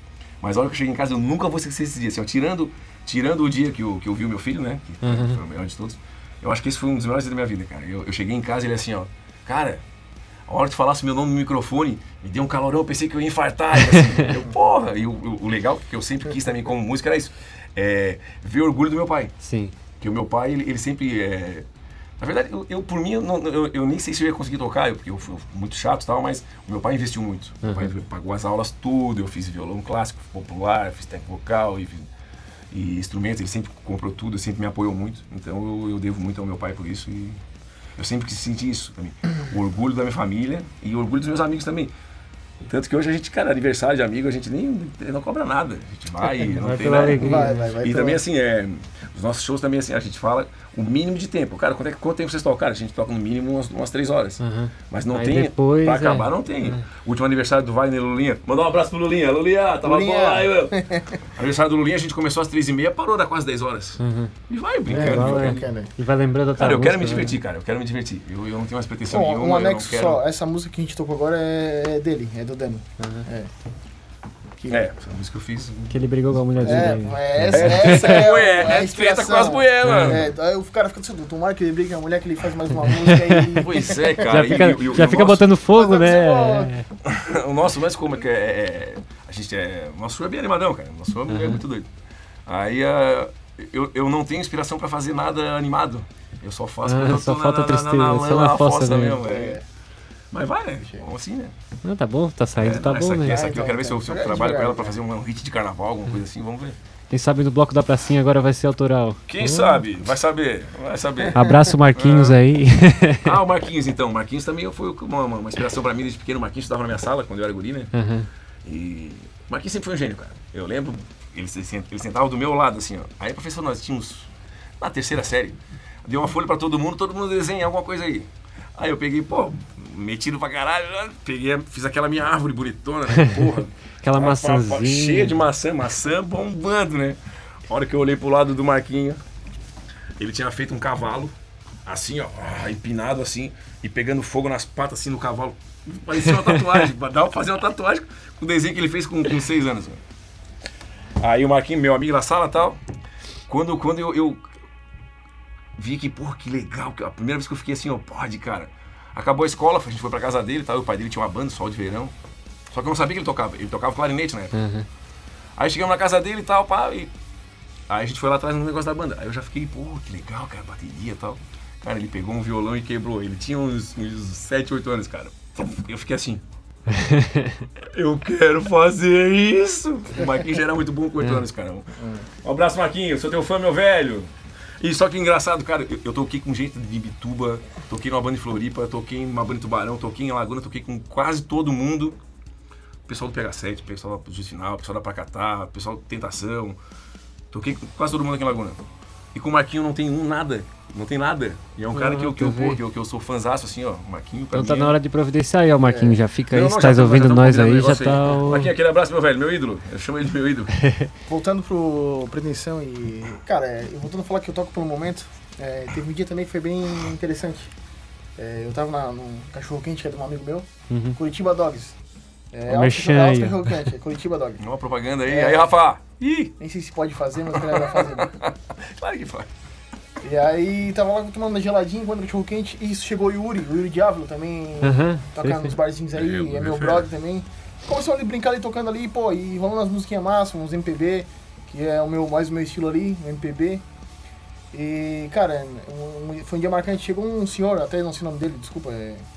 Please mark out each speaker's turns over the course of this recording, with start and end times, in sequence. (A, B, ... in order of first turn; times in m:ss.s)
0:00.4-0:09.8 A
0:05.0-0:05.4 B
0:10.5-0:19.3 A
0:19.4-0:19.7 B
0:20.0-0:21.7 A
0:22.2-0:32.1 A
0:27.6-0:27.9 B
0:32.7-0:37.4 A
0:38.0-0:41.9 A
0:42.6-1:05.6 A
0:46.4-0:47.7 B
0:47.2-0:48.2 C
0:54.4-0:56.8 B
0:59.8-1:01.2 C
1:04.0-1:04.3 B
1:04.9-1:05.9 C
1:04.9-1:07.4 B
1:06.6-1:10.2 A
1:09.1-1:13.5 C
1:14.6-1:14.9 C
1:14.7-1:20.3 A
1:15.9-1:18.3 B
1:16.6-1:24.6 C
1:19.8-1:20.2 B
1:22.8-1:23.7 B
1:23.6-1:25.5 A
1:24.2-1:26.8 B
1:25.7-1:26.7 C
1:27.0-1:31.9 A
1:31.3-1:31.6 B
1:32.5-1:39.6 A
1:36.8-1:39.2 B
1:39.2-1:39.6 C
1:40.3-1:41.5 A
1:41.8-1:43.5 B
1:42.6-1:46.8 A
1:43.3-1:45.0 C
1:47.1-1:49.8 B
1:49.3-1:52.4 A
1:51.2-1:51.7 C
1:51.3-1:53.4 B
1:53.2-1:57.9 A
1:57.9-1:58.3 B
1:58.6-2:19.2 A
2:14.0-2:15.4 B
2:20.2-2:21.3 A
2:21.9-2:30.0 A
2:31.2-2:32.8 A
2:33.5-2:34.5 A
2:35.8-2:42.1 A
2:42.7-2:44.6 A
2:44.5-2:44.9 B
2:45.6-2:47.1 A
2:47.9-2:56.4 A
2:57.0-2:57.5 B
2:57.8-3:01.9 A
3:02.0-3:02.3 C
3:02.4-3:12.2 A
3:13.1-3:16.8 A
3:17.5-3:18.8 A
3:19.3-3:25.0 A
3:21.9-3:22.8 B
3:24.5-3:28.7 B
3:25.9-3:26.2 C
3:26.5-3:30.7 A
3:30.8-3:31.1 B
3:31.3-3:37.7 C
3:38.4-3:42.0 C
3:40.9-3:41.2 B
3:42.5-3:44.6 C
3:42.7-3:43.9 B
3:44.6-3:46.5 A
3:45.3-3:45.7 C
3:46.6-3:48.3 C
3:47.5-3:49.5 A
3:50.2-4:03.8 C
3:54.8-3:55.7 B
3:56.1-3:57.1 A
4:04.7-4:09.3 C